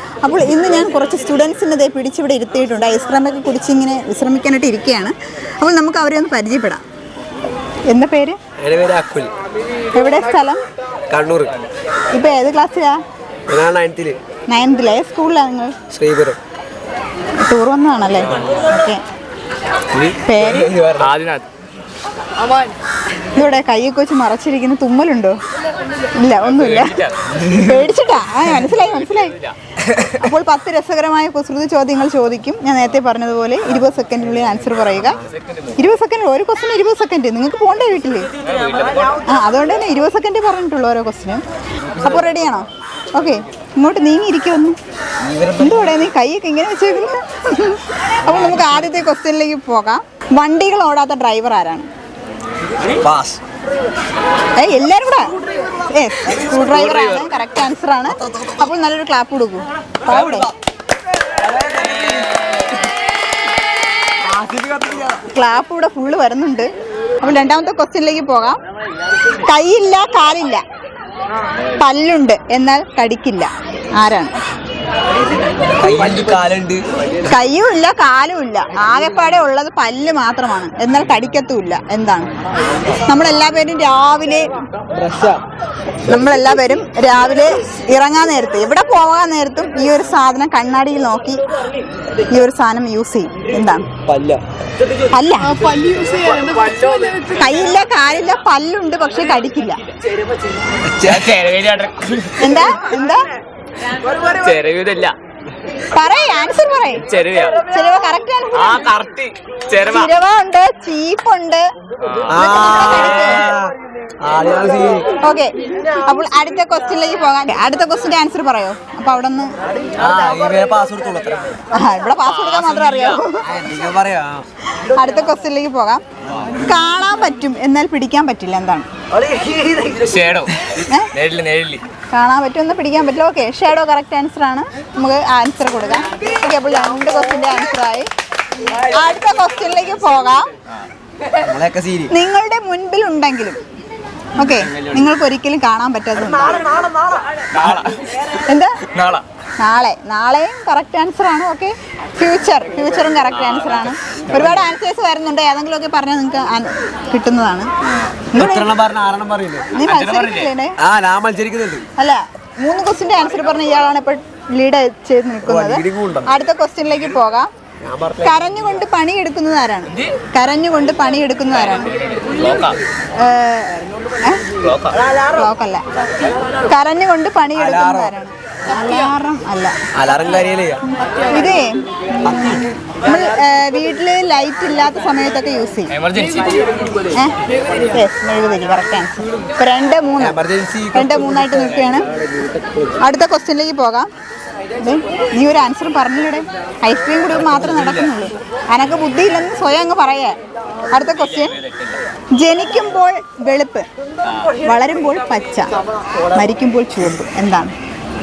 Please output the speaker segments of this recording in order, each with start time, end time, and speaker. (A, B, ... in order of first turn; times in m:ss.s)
0:00.2-0:06.8 A
0:07.9-0:08.4 A
0:08.6-0:09.3 B
0:09.9-0:10.6 A
0:11.1-0:11.5 B
0:12.1-0:13.0 A
0:13.5-0:14.2 B
0:14.5-0:15.8 A
0:15.9-0:16.4 B
0:17.4-0:19.0 A
0:19.9-0:21.1 B
0:20.2-0:20.8 A
0:21.0-0:21.5 C
0:23.3-0:25.4 A
0:26.2-0:29.3 A
0:26.5-0:27.4 C
0:29.2-0:29.5 C
0:30.1-0:35.2 A
0:35.4-0:35.7 C
0:35.8-0:38.3 A
0:38.4-0:39.2 C
0:39.3-0:41.4 A
0:42.0-0:44.8 A
0:45.2-0:45.8 B
0:45.6-0:51.9 A
0:53.0-0:53.4 B
0:54.6-1:00.5 A
0:56.7-0:57.0 C
1:00.1-1:00.5 B
1:01.4-1:02.5 B
1:04.2-1:05.2 B
1:05.3-1:06.7 A
1:07.2-1:08.6 A
1:09.4-1:10.6 A
1:11.8-1:14.4 A
1:15.8-1:16.8 B
1:17.3-1:22.3 A
1:23.0-1:24.5 A
1:24.9-1:25.4 B
1:26.0-1:31.4 A
1:32.3-1:33.8 A
1:34.1-1:34.4 B
1:35.1-1:36.0 A
1:37.2-1:39.8 A
1:40.8-1:41.4 B
1:41.0-1:42.5 C
1:42.4-1:43.2 A
1:44.2-1:45.1 C
1:45.9-1:47.0 A
1:47.0-1:47.6 C
1:47.7-1:48.9 A
1:48.5-1:50.1 C
1:49.8-1:51.6 A
1:52.0-1:52.4 C
1:52.3-1:55.1 B
1:52.4-1:53.6 A
1:55.2-1:55.5 A
1:56.0-1:59.5 A
2:00.0-2:01.6 B
2:01.7-2:03.6 A
2:02.3-2:03.2 C
2:03.4-2:04.4 B
2:04.7-2:06.0 A
2:06.5-2:08.9 A
2:09.9-2:11.8 C
2:10.8-2:11.1 A
2:12.1-2:18.1 A
2:18.7-2:20.5 A
2:21.4-2:22.1 B
2:22.1-2:23.6 A
2:24.3-2:26.7 A
2:27.5-2:28.2 C
2:28.3-2:28.8 A
2:28.9-2:29.2 C
2:29.6-2:37.7 A
2:38.3-2:38.7 A
2:38.3-2:39.7 B
2:39.7-2:40.8 A
2:39.8-2:40.5 C
2:40.8-2:41.8 B
2:42.0-2:47.5 A
2:45.4-2:46.3 B
2:47.8-2:48.4 B
2:48.2-2:51.9 A
2:51.6-2:52.8 C
2:53.2-2:54.5 A
2:54.6-2:55.0 C
2:55.3-2:55.8 A
2:56.7-2:59.8 A
2:57.5-2:58.1 B
2:59.9-3:00.8 B
3:01.3-3:05.9 A
3:02.3-3:02.6 B
3:05.9-3:06.7 C
3:07.9-3:10.4 A
3:10.2-3:11.4 B
3:10.9-3:12.1 A
3:13.0-3:14.1 A
3:14.8-3:20.4 A
3:17.3-3:18.1 B
3:20.9-3:21.6 A
3:21.3-3:22.0 C
3:22.4-3:23.9 A
3:24.6-3:25.7 A
3:26.3-3:27.7 A